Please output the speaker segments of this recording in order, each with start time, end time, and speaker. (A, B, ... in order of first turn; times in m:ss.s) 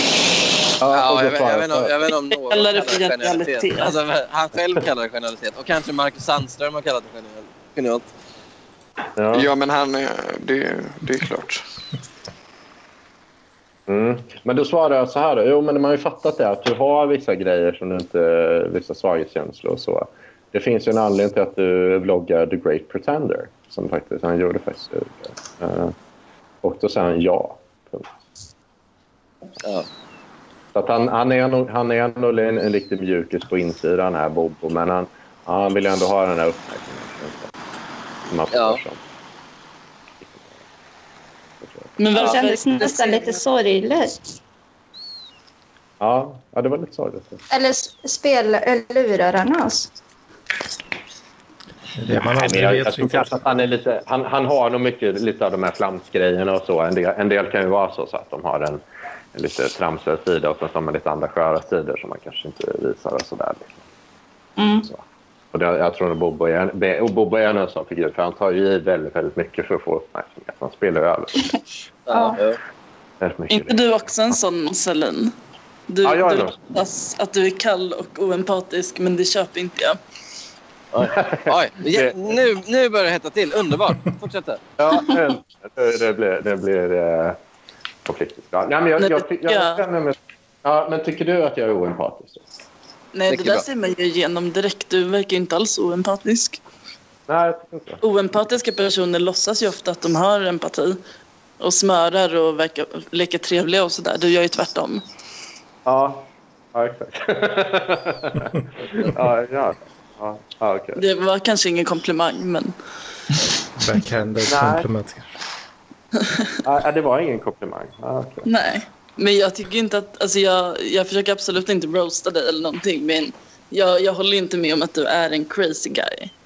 0:00.8-0:01.9 A
0:00.9-0:08.1 B
0:02.3-0:04.0 C
0:09.2-0:09.5 A
0:09.3-0:11.6 D
0:13.9-0:25.9 A
0:26.6-0:28.1 A
0:30.8-0:37.5 A
0:38.3-0:39.0 A
0:38.5-0:38.8 B
0:40.2-0:40.5 A
0:41.6-0:42.3 A
0:42.0-0:43.4 C
0:42.1-0:44.2 E
0:46.0-0:47.4 A
0:47.5-0:49.9 E
0:52.0-0:53.4 F
0:52.1-0:58.8 A
0:59.4-1:03.8 A
1:04.6-1:04.9 E
1:04.9-1:11.5 A
1:12.1-1:12.6 B
1:12.1-1:12.4 E
1:13.2-1:13.8 A
1:13.5-1:15.3 C
1:15.9-1:20.0 C
1:16.0-1:16.6 A
1:20.9-1:24.6 B
1:21.1-1:22.4 A
1:24.8-1:27.4 A
1:28.1-1:32.4 A
1:29.0-1:29.8 C
1:33.1-1:36.6 C
1:33.3-1:33.6 B
1:37.3-1:38.0 A
1:38.0-1:41.0 C
1:41.6-1:45.0 C
1:45.8-1:51.0 A
1:51.0-1:52.8 C
1:53.8-1:55.3 F
1:54.5-1:54.9 A
1:56.2-1:56.5 C
1:56.6-1:58.5 A
1:58.5-2:06.3 C